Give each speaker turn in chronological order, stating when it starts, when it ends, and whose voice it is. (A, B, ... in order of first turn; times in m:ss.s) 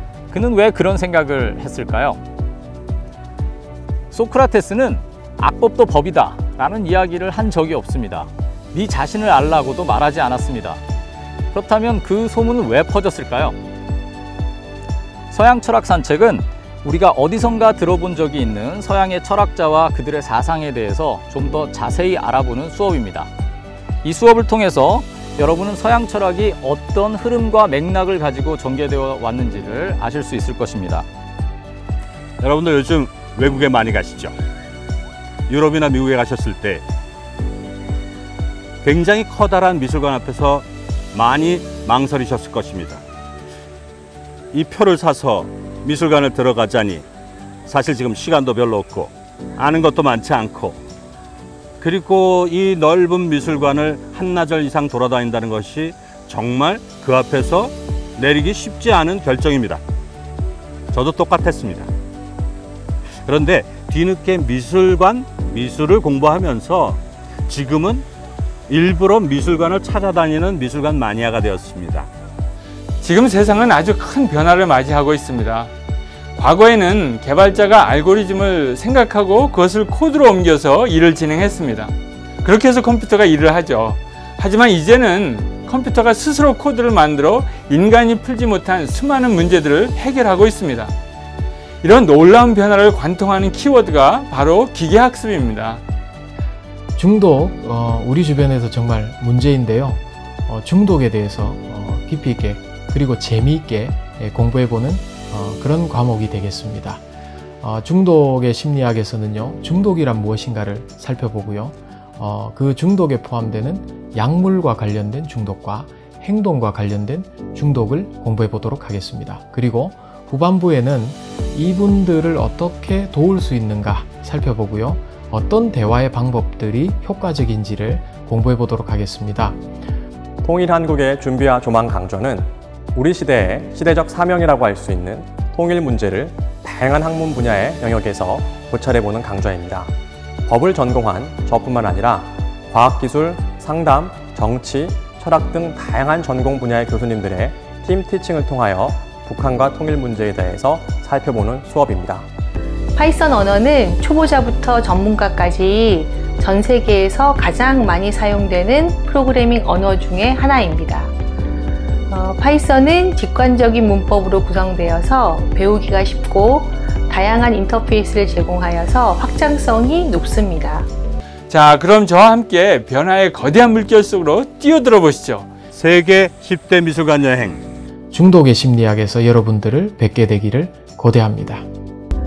0:00.3-0:02.2 A
0:04.1-0:10.8 A
0:11.5-0:13.6 A
0:15.3-0:23.3 A
0:24.0-0:31.1 A
0:32.4-0:34.4 B
0:35.5-0:36.8 B
0:38.8-0:43.0 B
0:44.5-0:47.0 B
0:47.7-0:50.8 B
0:51.8-0:59.8 B
1:00.9-1:01.9 B
1:03.2-1:08.0 B
1:08.7-1:12.1 B
1:13.0-1:15.7 C
1:16.4-1:30.9 C
1:31.8-1:35.8 C
1:37.0-1:47.0 D
1:47.6-2:09.6 D
2:10.4-2:19.9 E
2:20.5-2:32.3 E
2:33.0-2:41.1 F
2:42.1-2:50.9 F
2:51.5-2:55.5 C
2:55.7-2:57.6 B
2:58.1-3:01.6 D